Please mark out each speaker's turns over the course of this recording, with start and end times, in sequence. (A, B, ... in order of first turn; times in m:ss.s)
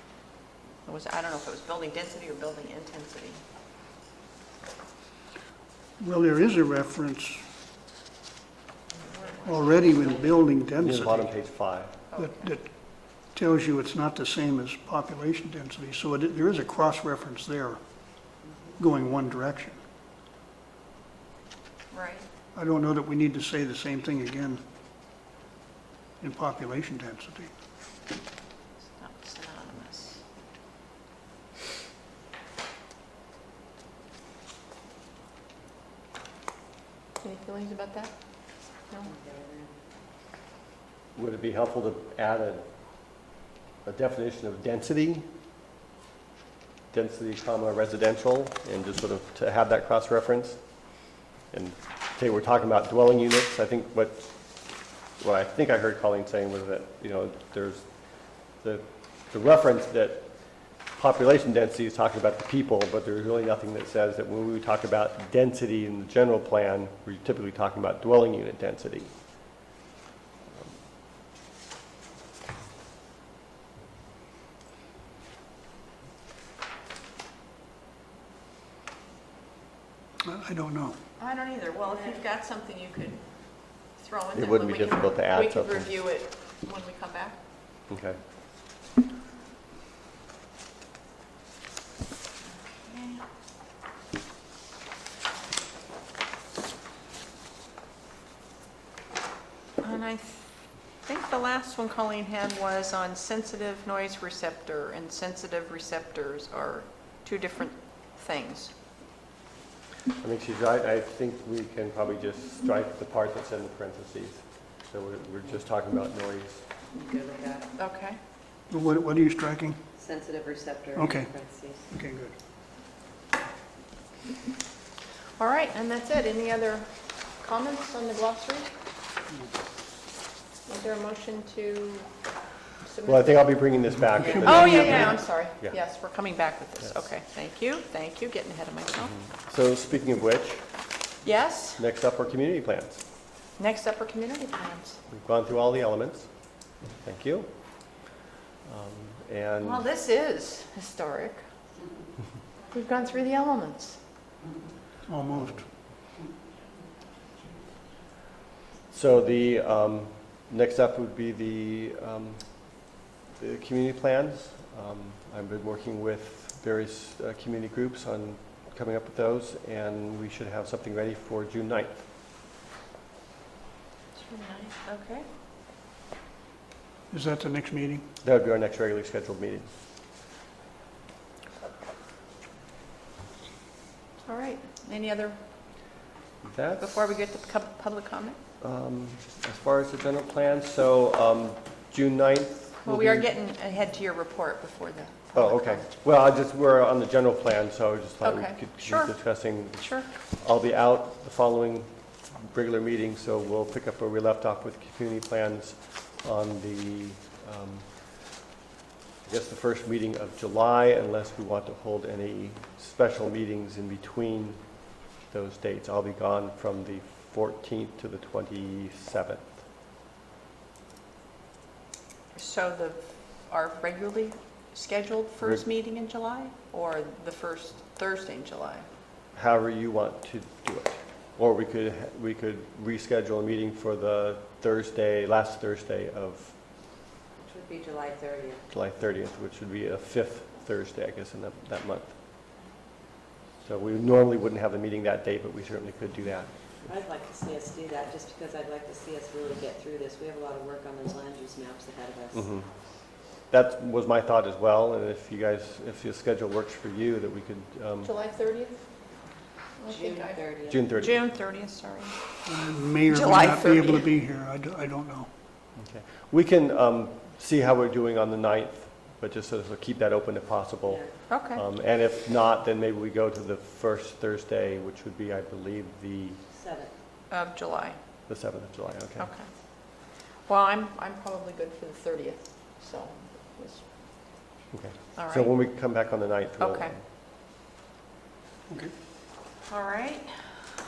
0:00.8-0:03.4 A
0:06.0-0:07.4 B
0:09.4-0:11.3 B
0:09.7-0:10.4 C
0:10.8-0:12.0 D
0:12.1-0:12.5 A
0:12.2-0:12.7 B
0:13.3-0:17.8 B
0:18.8-0:19.8 B
0:21.9-0:22.2 A
0:22.5-0:24.6 B
0:26.2-0:27.5 B
0:29.0-0:30.2 A
0:37.2-0:38.1 A
0:39.0-0:39.7 C
0:41.1-0:42.6 D
0:43.8-0:45.3 D
0:46.9-0:50.6 D
0:51.5-0:54.3 D
0:55.2-0:57.9 D
0:58.6-1:00.3 D
1:00.9-1:09.1 D
1:20.2-1:21.0 B
1:21.2-1:23.2 A
1:24.0-1:27.4 A
1:24.3-1:25.9 D
1:27.9-1:28.2 D
1:32.7-1:33.2 A
1:39.8-1:40.4 A
1:41.0-1:48.7 A
1:50.2-1:56.6 D
1:56.9-1:57.7 C
1:57.8-1:58.2 A
1:58.7-1:59.8 B
2:00.0-2:01.9 C
2:01.0-2:01.3 B
2:01.9-2:02.3 B
2:05.4-2:06.9 A
2:07.4-2:08.7 A
2:10.7-2:12.1 A
2:12.8-2:13.4 A
2:13.0-2:15.8 D
2:14.3-2:15.1 C
2:14.3-2:19.2 A
2:14.5-2:15.0 B
2:19.2-2:20.7 D
2:21.2-2:21.8 A
2:21.8-2:23.0 D
2:23.6-2:25.0 A
2:25.1-2:26.3 D
2:27.0-2:27.5 D
2:28.6-2:29.8 D
2:29.6-2:31.4 A
2:32.7-2:34.0 A
2:35.0-2:35.6 B
2:38.9-2:42.5 D
2:43.4-2:52.0 D
2:54.1-2:55.3 A
2:57.1-2:58.0 B
2:58.2-2:59.7 D
3:04.2-3:05.4 A
3:06.4-3:07.0 D
3:06.8-3:08.4 A
3:08.6-3:13.3 D
3:12.8-3:15.8 A
3:15.3-3:27.9 D
3:18.2-3:19.1 A
3:19.8-3:20.1 A
3:29.2-3:34.6 D
3:35.3-3:39.6 D
3:42.3-3:48.9 A
3:49.3-3:56.6 D
3:57.4-3:58.6 C
3:58.7-4:02.2 D
4:03.6-4:06.5 D
4:06.8-4:12.5 C
4:12.4-4:12.7 D
4:13.5-4:18.1 D
4:18.0-4:18.8 A
4:19.8-4:22.1 A
4:19.9-4:20.8 C
4:20.7-4:21.2 D
4:22.4-4:25.3 B
4:23.1-4:24.1 A
4:25.8-4:36.4 D
4:31.3-4:31.6 A
4:36.5-4:36.9 C
4:37.3-4:38.0 A
4:38.3-4:39.3 D
4:39.2-4:39.5 A
4:40.5-4:43.8 A
4:44.7-4:47.0 D
4:45.2-4:45.5 A
4:46.6-4:46.9 A
4:49.7-4:50.4 A